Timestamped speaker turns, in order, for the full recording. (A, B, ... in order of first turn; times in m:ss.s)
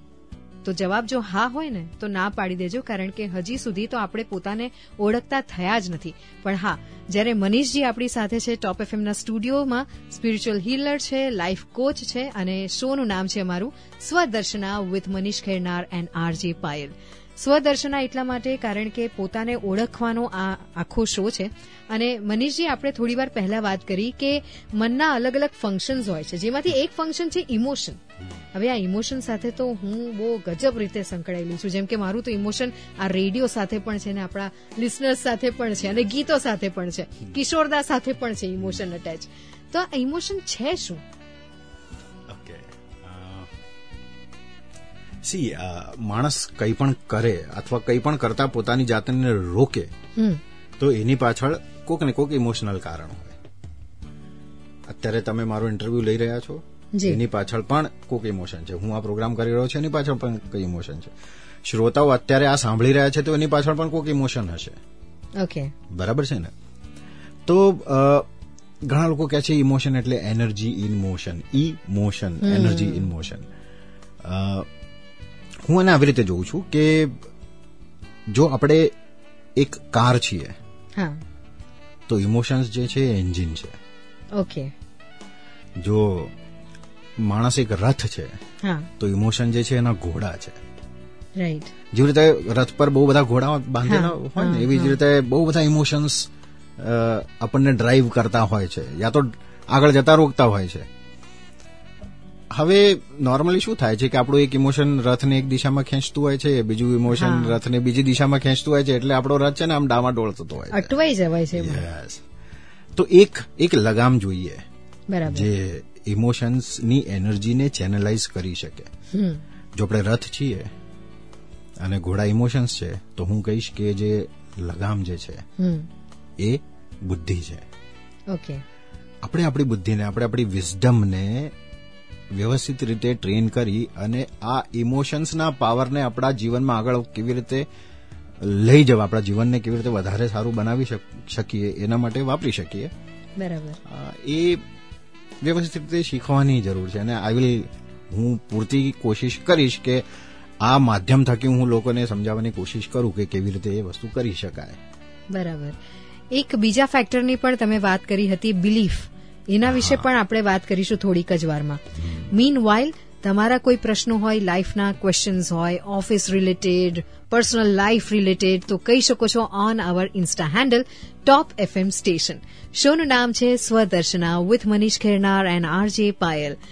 0:00.6-0:28.0 A
0:28.5-0:41.0 A
0:42.3-0:43.5 B
0:45.2-0:49.9 B
0:50.8-0:53.4 B
0:54.9-1:01.1 B
0:56.9-0:57.2 A
1:01.6-1:04.8 B
1:05.4-1:05.7 A
1:05.9-1:06.5 B
1:07.4-1:08.2 B
1:08.8-1:13.5 B
1:12.4-1:13.1 A
1:14.2-1:14.7 B
1:15.6-1:17.2 B
1:18.3-1:18.9 B
1:19.6-1:20.5 B
1:22.1-1:23.7 B
1:24.4-1:24.7 A
1:25.8-1:26.3 B
1:27.2-1:28.3 B
1:28.6-1:28.9 A
1:29.0-1:30.6 B
1:31.4-1:31.7 A
1:31.9-1:40.9 B
1:33.8-1:35.0 A
1:42.5-1:51.0 B
1:47.1-1:47.6 A
1:50.7-1:51.8 A
1:51.5-1:52.2 B
1:52.9-1:54.6 B
1:55.1-1:55.5 A
1:55.3-1:58.9 B
1:59.1-1:59.4 A
1:59.8-2:00.7 B
2:01.8-2:05.4 B
2:05.6-2:05.9 A
2:06.4-2:07.6 B
2:08.3-2:08.6 A
2:09.2-2:11.5 B
2:12.4-2:17.6 B
2:18.4-2:22.9 B
2:23.4-2:23.8 A
2:23.8-2:24.6 B
2:25.4-2:30.0 B
2:30.6-2:34.8 B
2:35.3-2:35.8 A
2:36.3-2:56.6 A
2:39.6-2:40.0 B
2:42.0-2:42.3 B